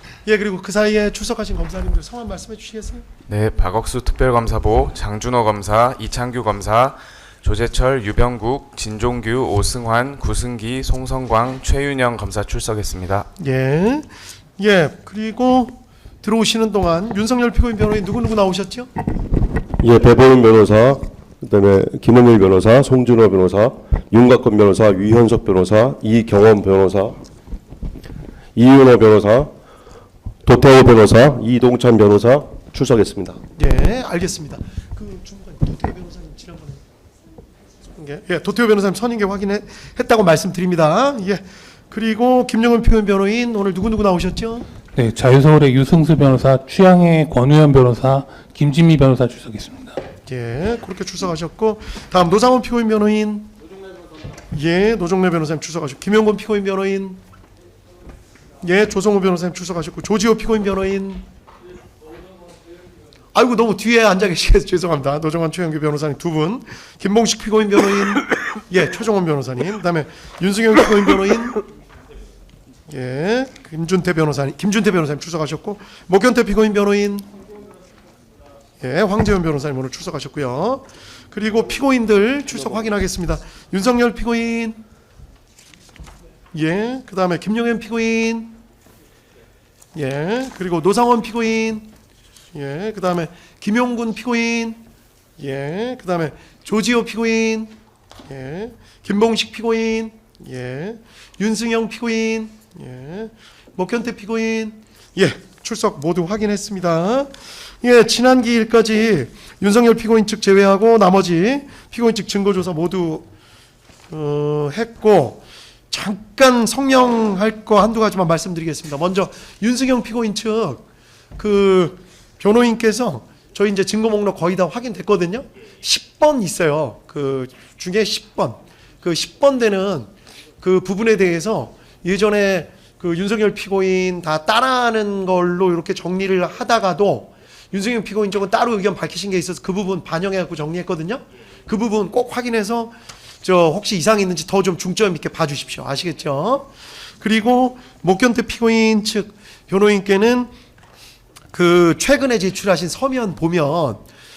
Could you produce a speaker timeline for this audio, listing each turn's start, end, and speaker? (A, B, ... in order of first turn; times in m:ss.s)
0:00.2-0:03.0 A
0:03.3-0:13.3 B
0:13.4-0:18.9 A
0:19.8-0:27.2 C
0:28.6-0:29.5 C
0:30.4-0:33.4 C
0:33.6-0:36.8 A
0:38.0-0:44.6 A
0:44.9-0:49.9 D
0:50.3-0:53.5 A
0:54.5-0:57.2 A
0:58.6-1:01.2 A
1:03.3-1:11.6 A
1:12.9-1:17.2 A
1:18.8-1:24.8 A
1:26.5-1:28.5 A
1:29.9-1:31.9 A
1:32.5-1:34.8 A
1:35.4-1:37.7 A
1:38.3-1:53.2 A
1:54.1-2:00.8 A
2:01.4-2:30.5 A
2:31.5-2:34.0 A